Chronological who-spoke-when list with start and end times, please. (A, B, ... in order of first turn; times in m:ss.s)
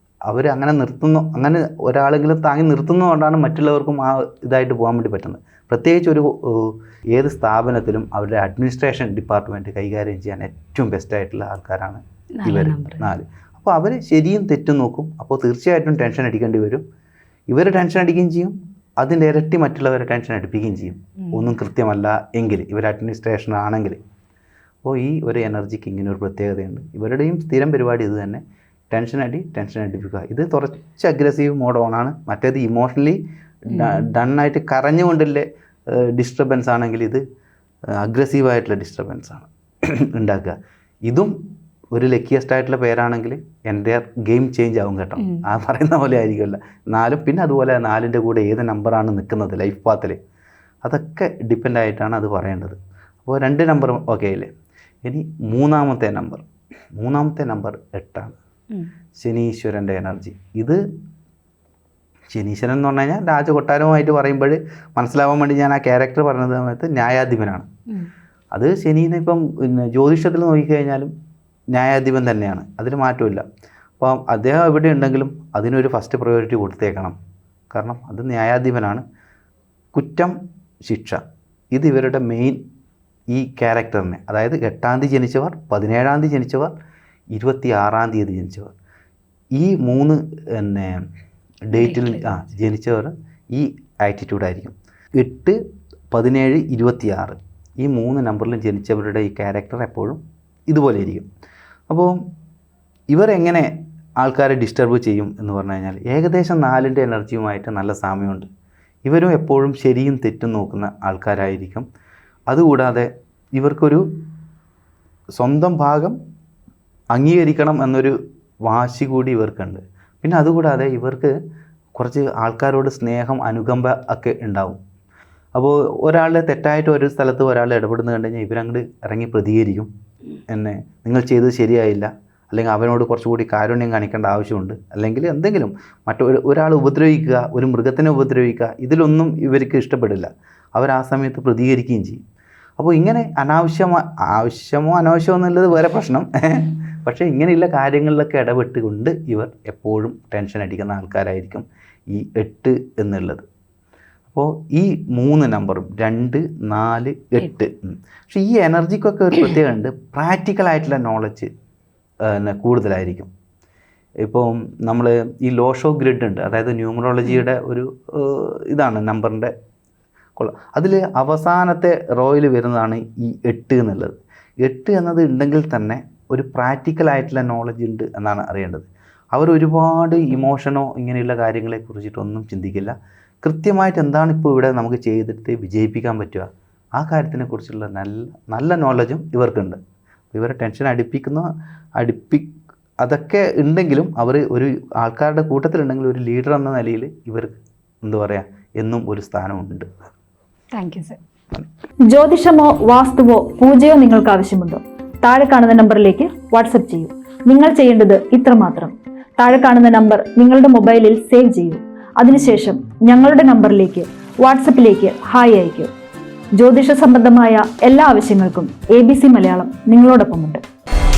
0:00.3-0:16.8 A
0:12.4-0:13.1 B
0:17.5-0:24.0 A
0:21.2-0:21.5 B
0:24.8-0:33.2 A
0:33.7-0:37.2 A
0:33.7-0:34.0 B
0:38.0-0:40.6 A
0:41.1-0:41.3 A
0:41.9-0:50.2 A
0:45.2-0:45.4 B
0:50.8-0:54.5 A
0:55.0-0:56.4 A
0:57.0-0:58.4 A
0:59.2-1:00.8 A
1:02.3-1:07.7 A
1:08.5-1:11.1 A
1:11.7-1:13.4 A
1:14.0-1:17.2 A
1:17.7-1:19.0 A
1:19.9-1:20.4 A
1:20.9-1:21.2 A
1:21.7-1:22.6 A
1:23.3-1:26.7 A
1:27.3-1:28.7 A
1:29.6-1:31.0 A
1:31.7-1:35.6 A
1:31.8-1:32.4 B
1:36.1-1:41.3 A
1:41.9-1:42.2 A
1:43.1-1:48.5 A
1:49.1-1:51.8 A
1:52.5-1:54.0 A
1:55.4-1:56.2 A
1:57.1-2:01.3 A
2:02.0-2:04.8 A
2:05.5-2:09.9 A
2:10.5-2:22.2 A
2:22.8-2:33.4 A
2:34.3-2:41.5 A
2:42.2-2:43.3 A
2:44.2-2:49.5 A
2:50.4-3:09.8 A
3:10.3-3:11.5 A
3:12.0-3:12.5 A
3:13.0-3:19.9 A
3:20.7-3:21.2 B
3:22.1-3:35.9 C
3:36.6-3:40.6 C